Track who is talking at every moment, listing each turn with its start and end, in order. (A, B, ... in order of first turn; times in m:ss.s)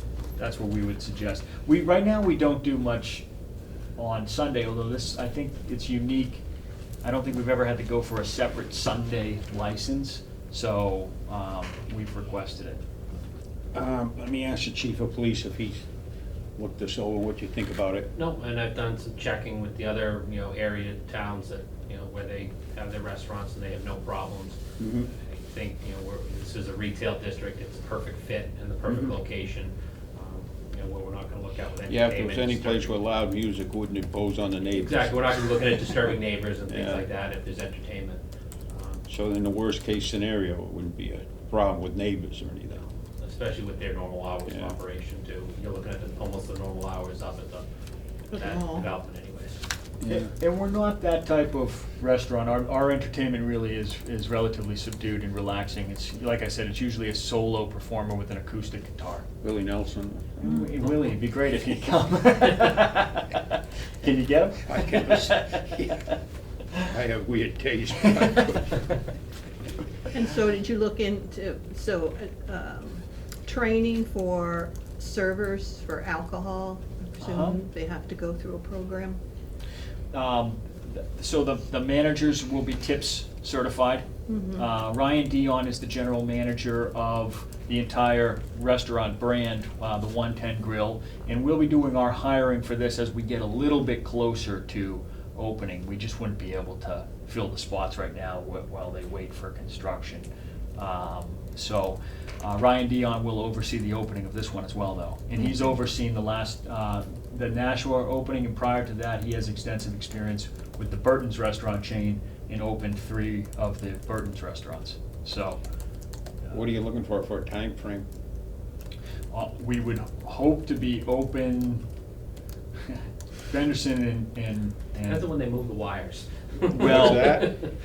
0:00.4-0:03.2 A
0:04.0-0:06.4 A
0:07.0-0:12.8 A
0:13.7-0:15.8 B
0:16.6-0:18.1 B
0:18.1-0:33.0 C
0:24.8-0:25.1 B
0:28.9-0:29.1 B
0:31.9-0:35.4 B
0:34.7-0:39.0 C
0:36.7-0:37.1 B
0:39.1-0:42.9 B
0:43.2-0:47.6 C
0:44.5-0:44.8 B
0:48.3-0:48.9 D
0:48.3-0:49.6 C
0:50.0-0:50.3 B
0:50.0-0:59.2 A
0:59.4-1:00.6 B
1:00.4-1:06.1 A
1:04.6-1:06.0 B
1:06.9-1:08.7 B
1:10.1-1:19.2 D
1:17.2-1:17.6 A
1:20.1-1:24.0 A
1:24.3-1:24.7 D
1:24.6-1:55.6 A
1:56.5-1:58.0 B
1:59.3-2:01.8 A
2:02.8-2:05.3 A
2:05.0-2:07.7 C
2:06.7-2:07.5 A
2:06.8-2:07.6 B